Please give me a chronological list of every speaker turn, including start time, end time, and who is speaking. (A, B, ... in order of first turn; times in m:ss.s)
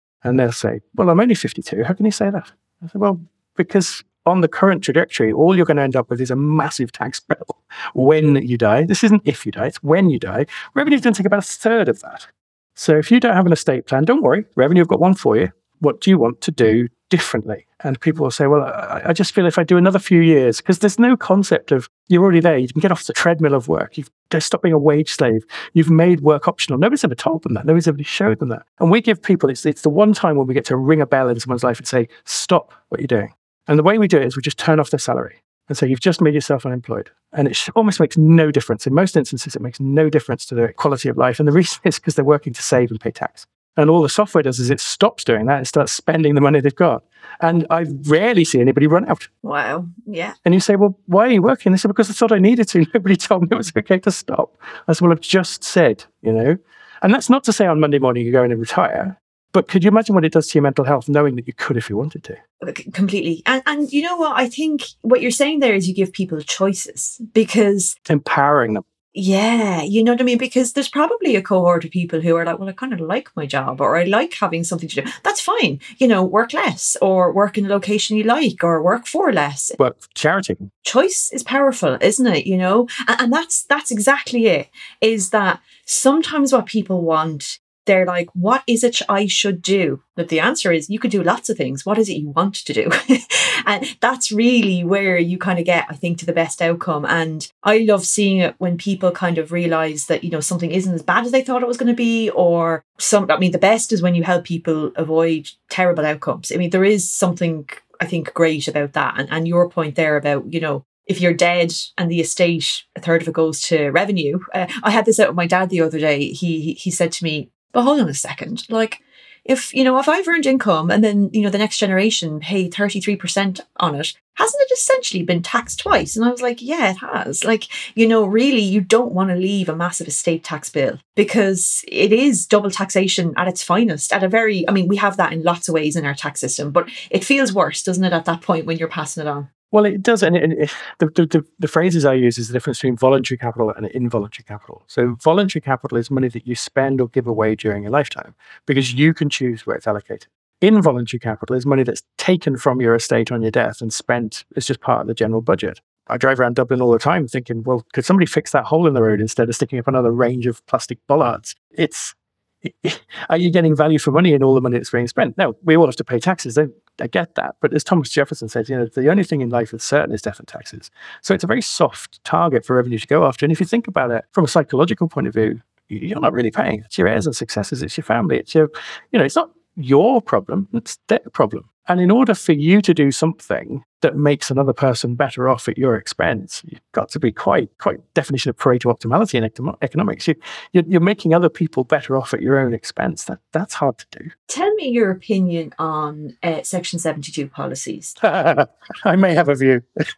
0:00.2-0:49.3 A
0:49.4-0:50.4 B
0:50.4-1:02.4 A
1:02.6-1:08.0 B
1:08.1-1:08.8 A
1:09.1-1:19.8 B
1:19.8-1:20.7 A
1:20.8-2:19.5 B
2:19.7-3:14.3 A
3:14.5-3:18.2 B
3:18.2-3:19.8 A